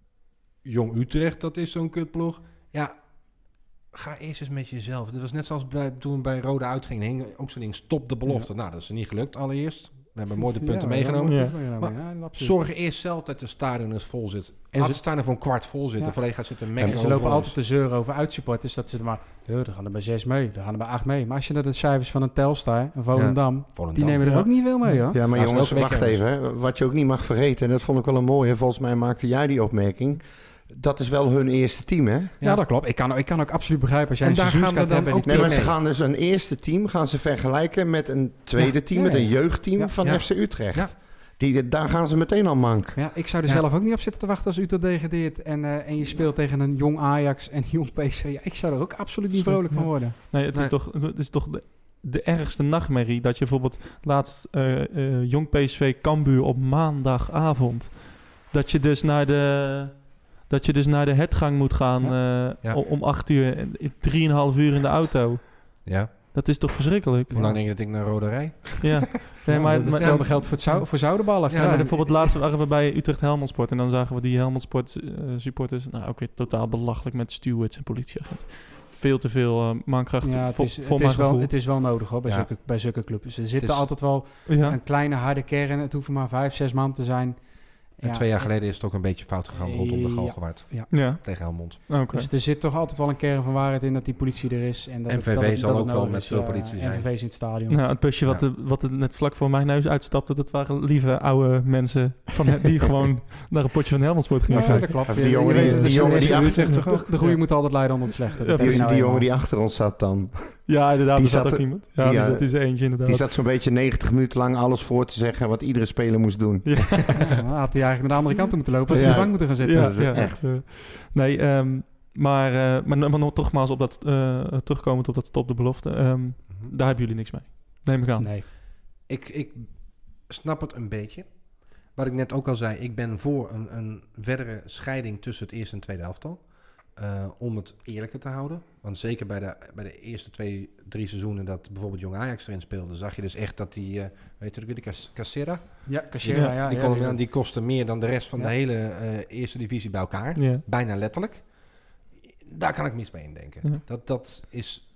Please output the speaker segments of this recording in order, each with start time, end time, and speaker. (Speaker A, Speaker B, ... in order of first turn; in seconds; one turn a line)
Speaker A: 0.6-17.6
Speaker B: 10.3-12.6
Speaker C: 11.3-11.6
Speaker B: 14.7-15.4
Speaker B: 16.0-25.2
Speaker A: 23.1-24.5
Speaker D: 25.1-32.4
Speaker A: 25.3-26.2
Speaker B: 32.4-35.7
Speaker A: 34.2-35.8
Speaker D: 35.3-43.0
Speaker B: 38.6-40.0
Speaker A: 40.0-40.9
Speaker B: 43.0-50.2
Speaker C: 49.3-67.4
Speaker A: 65.8-66.1
Speaker B: 67.3-67.6
Speaker A: 67.3-69.3
Speaker C: 68.8-81.5
Speaker B: 69.5-72.3
Speaker A: 69.9-70.4
Speaker A: 71.5-72.0
Speaker B: 80.2-88.6
Speaker A: 82.2-82.5
Speaker A: 83.6-83.9
Speaker C: 84.5-84.8
Speaker A: 88.0-91.8
Speaker B: 89.5-90.9
Speaker C: 90.9-92.3
Speaker B: 92.1-97.9
Speaker A: 95.1-97.1
Speaker C: 97.7-107.7
Speaker B: 104.5-109.3
Speaker A: 104.6-107.4
Speaker D: 105.0-106.8
Speaker C: 108.3-109.1
Speaker D: 108.6-117.2
Speaker C: 110.7-113.3
Speaker C: 116.6-117.2
Speaker B: 117.2-120.3
Speaker C: 118.9-128.4
Speaker D: 118.9-120.4
Speaker B: 128.2-128.5
Speaker A: 129.0-154.8
Speaker B: 145.9-147.2
Speaker C: 150.4-150.6